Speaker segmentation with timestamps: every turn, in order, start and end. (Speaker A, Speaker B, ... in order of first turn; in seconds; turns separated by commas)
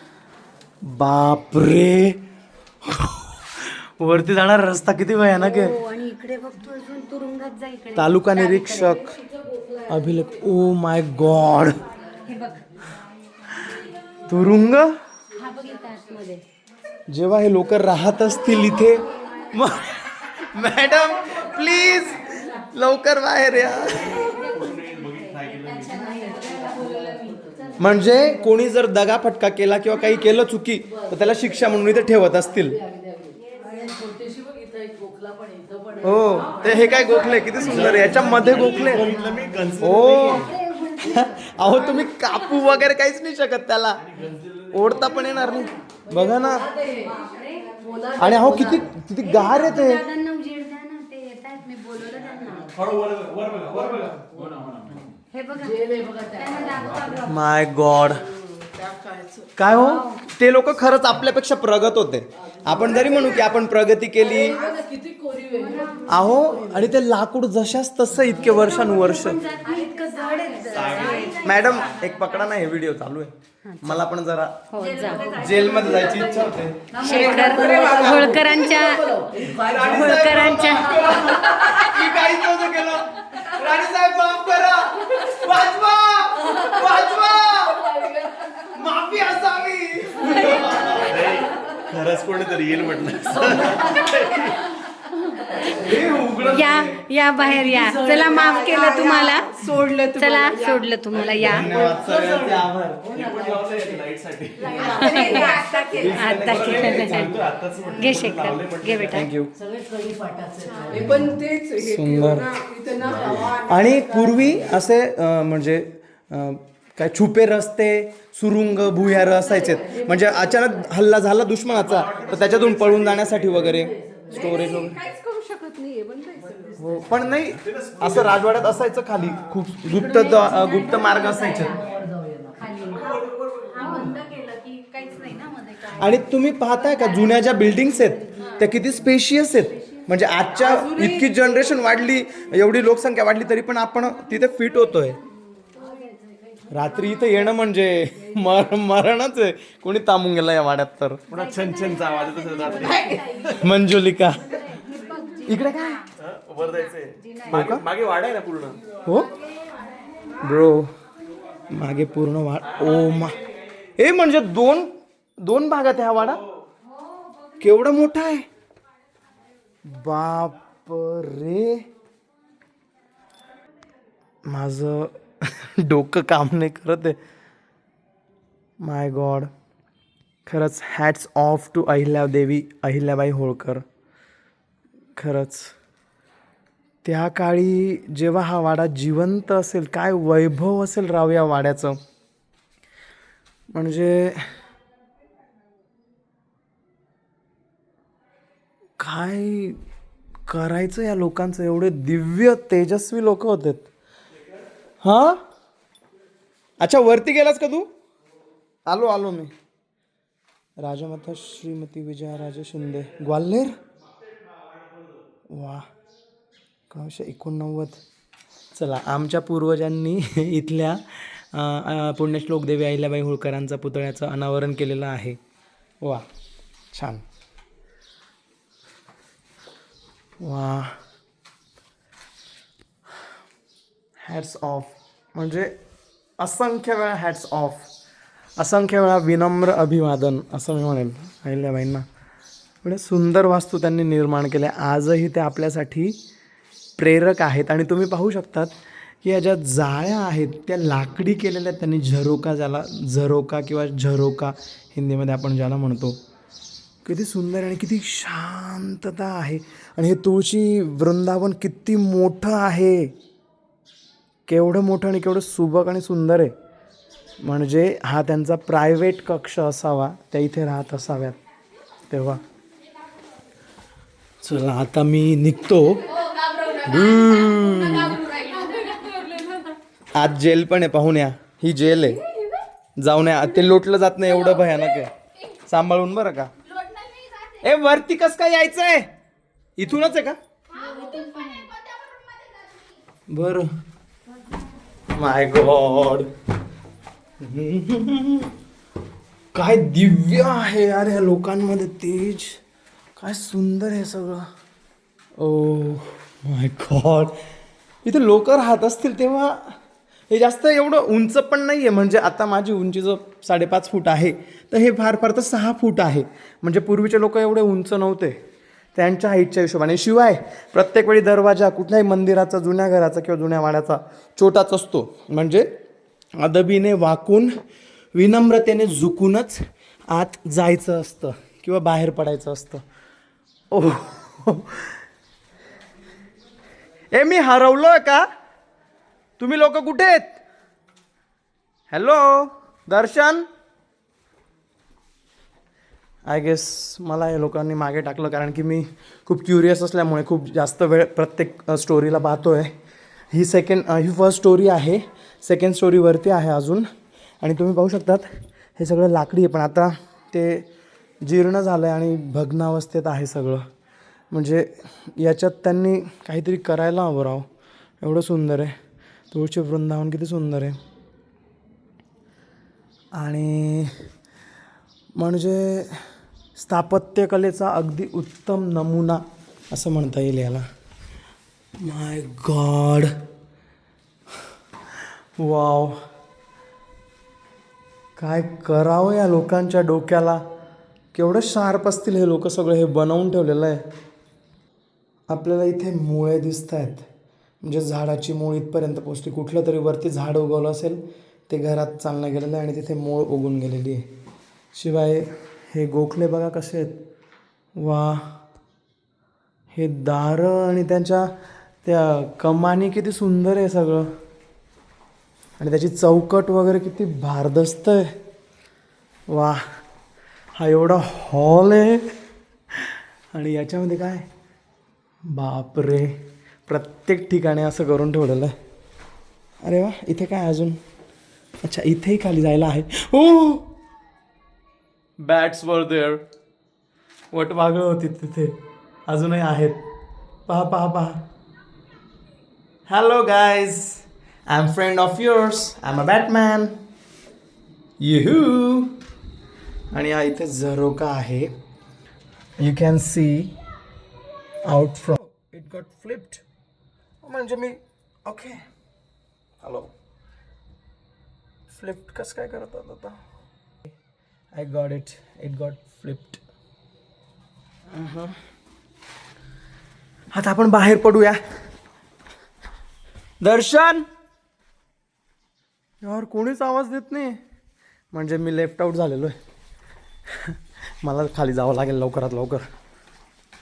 Speaker A: 0.8-2.2, Speaker A: 2.8-5.8, Speaker B: 5.4-9.0, Speaker A: 7.9-9.1, Speaker A: 9.9-11.8, Speaker B: 12.2-12.6, Speaker A: 13.6-14.9, Speaker B: 15.3-16.4, Speaker A: 17.1-24.4, Speaker C: 24.1-26.1, Speaker B: 24.4-27.7, Speaker D: 26.1-27.7, Speaker A: 27.8-32.8, Speaker D: 32.9-37.3, Speaker A: 36.0-39.1, Speaker C: 37.5-40.5, Speaker A: 39.8-44.0, Speaker B: 40.5-41.1, Speaker C: 44.1-44.8, Speaker A: 44.7-46.7, Speaker D: 46.2-47.1, Speaker B: 47.1-47.8, Speaker D: 47.8-48.8, Speaker A: 48.2-50.0, Speaker B: 49.2-52.7, Speaker C: 52.7-55.1, Speaker B: 55.3-57.3, Speaker D: 55.9-56.4, Speaker A: 57.2-58.2, Speaker D: 58.8-59.5, Speaker A: 59.5-64.6, Speaker B: 59.8-60.2, Speaker D: 64.3-66.0, Speaker B: 65.5-66.3, Speaker A: 66.1-69.4, Speaker B: 68.6-71.7, Speaker C: 70.7-71.7, Speaker A: 71.4-74.7, Speaker B: 73.7-74.0, Speaker B: 74.7-75.4, Speaker A: 75.3-78.3, Speaker D: 75.5-76.2, Speaker B: 76.9-79.2, Speaker D: 77.0-79.9, Speaker A: 79.4-88.0, Speaker B: 79.9-81.7, Speaker D: 88.0-88.5, Speaker A: 88.6-91.5, Speaker C: 91.1-94.6, Speaker A: 93.9-94.3, Speaker A: 95.6-97.0, Speaker B: 96.5-101.7, Speaker D: 98.3-100.7, Speaker A: 101.4-103.2, Speaker D: 101.7-102.6, Speaker C: 103.1-105.1, Speaker D: 103.1-103.4, Speaker D: 104.6-106.2, Speaker B: 104.8-107.3, Speaker A: 105.9-107.3, Speaker C: 106.0-109.3, Speaker B: 107.9-109.3, Speaker A: 109.1-109.5, Speaker D: 109.6-114.6, Speaker A: 111.8-112.5, Speaker C: 113.1-113.5, Speaker A: 113.5-125.0, Speaker C: 121.9-123.5, Speaker D: 124.0-127.0, Speaker A: 126.8-131.8, Speaker C: 127.7-128.6, Speaker B: 130.3-131.6, Speaker D: 131.7-132.6, Speaker B: 132.6-133.2, Speaker C: 133.0-133.4, Speaker B: 133.7-136.0, Speaker A: 135.9-145.2, Speaker D: 140.7-141.1, Speaker B: 145.8-146.3, Speaker A: 146.7-151.2, Speaker C: 151.3-153.5, Speaker B: 152.6-153.2, Speaker A: 153.5-154.7, Speaker B: 154.7-156.0, Speaker A: 155.4-156.0, Speaker C: 156.2-158.8, Speaker B: 156.7-157.6, Speaker A: 157.5-157.8, Speaker A: 159.0-159.3, Speaker A: 160.4-160.9, Speaker A: 161.7-163.4, Speaker A: 164.0-164.9, Speaker A: 165.4-166.4, Speaker A: 167.6-168.4, Speaker A: 169.8-171.8, Speaker A: 174.4-177.2, Speaker A: 178.8-179.5, Speaker A: 180.4-183.8, Speaker A: 185.2-185.7, Speaker A: 187.0-192.0, Speaker A: 193.7-194.4, Speaker A: 199.0-199.8, Speaker A: 200.5-203.9, Speaker A: 205.0-205.4, Speaker A: 206.8-207.9, Speaker A: 208.9-209.5, Speaker A: 210.8-213.7, Speaker A: 215.5-215.8, Speaker A: 216.9-218.0, Speaker A: 218.7-225.4, Speaker A: 226.0-226.3, Speaker A: 226.9-227.2, Speaker A: 230.4-230.9, Speaker A: 234.2-235.7, Speaker A: 236.4-237.9, Speaker A: 238.6-242.1, Speaker A: 242.8-246.2, Speaker A: 247.0-256.2, Speaker A: 257.0-263.1, Speaker A: 264.5-266.5, Speaker A: 267.4-271.4, Speaker A: 272.1-272.4, Speaker A: 274.4-276.1, Speaker A: 276.8-278.4, Speaker B: 278.5-279.5, Speaker A: 280.1-282.2, Speaker A: 283.0-286.5, Speaker A: 287.6-289.1, Speaker A: 289.8-290.4, Speaker B: 290.7-291.8, Speaker A: 293.3-293.7, Speaker A: 295.1-296.3, Speaker A: 297.4-298.5, Speaker A: 299.5-302.6, Speaker A: 303.2-304.5, Speaker A: 305.4-307.4, Speaker A: 308.0-309.7, Speaker A: 310.3-318.4, Speaker A: 318.9-325.7, Speaker A: 326.4-327.5, Speaker A: 328.1-332.8, Speaker A: 333.7-335.0, Speaker A: 337.1-338.3, Speaker A: 339.4-340.4, Speaker A: 341.9-343.4, Speaker A: 346.2-352.7, Speaker A: 353.3-356.9, Speaker A: 357.4-360.7, Speaker A: 361.2-363.6, Speaker A: 364.3-367.5, Speaker A: 368.0-368.7, Speaker A: 369.3-370.8, Speaker A: 373.1-373.9, Speaker A: 375.1-376.0, Speaker A: 376.5-380.6, Speaker A: 381.8-383.1, Speaker A: 385.4-386.0, Speaker A: 388.2-390.4, Speaker A: 391.1-393.8, Speaker A: 395.3-397.0, Speaker A: 397.6-404.0, Speaker A: 404.7-407.0, Speaker A: 407.8-408.2, Speaker A: 409.7-414.1, Speaker A: 415.6-418.1, Speaker A: 419.3-419.6, Speaker A: 420.6-422.1, Speaker A: 423.3-424.3, Speaker A: 425.3-426.1, Speaker A: 426.7-428.5, Speaker A: 429.6-430.8, Speaker A: 431.6-433.7, Speaker A: 435.2-436.2, Speaker A: 437.3-438.5, Speaker A: 439.1-439.8, Speaker A: 440.5-441.2, Speaker A: 442.9-446.7, Speaker A: 448.0-449.0, Speaker A: 449.9-451.5, Speaker A: 452.6-453.6, Speaker A: 454.6-456.4, Speaker A: 457.2-458.6, Speaker A: 459.6-459.9, Speaker A: 461.7-463.2, Speaker A: 464.5-466.4, Speaker A: 467.9-468.4, Speaker A: 470.3-471.4, Speaker A: 473.4-474.1, Speaker A: 476.0-477.4, Speaker A: 478.1-479.3, Speaker A: 480.4-482.6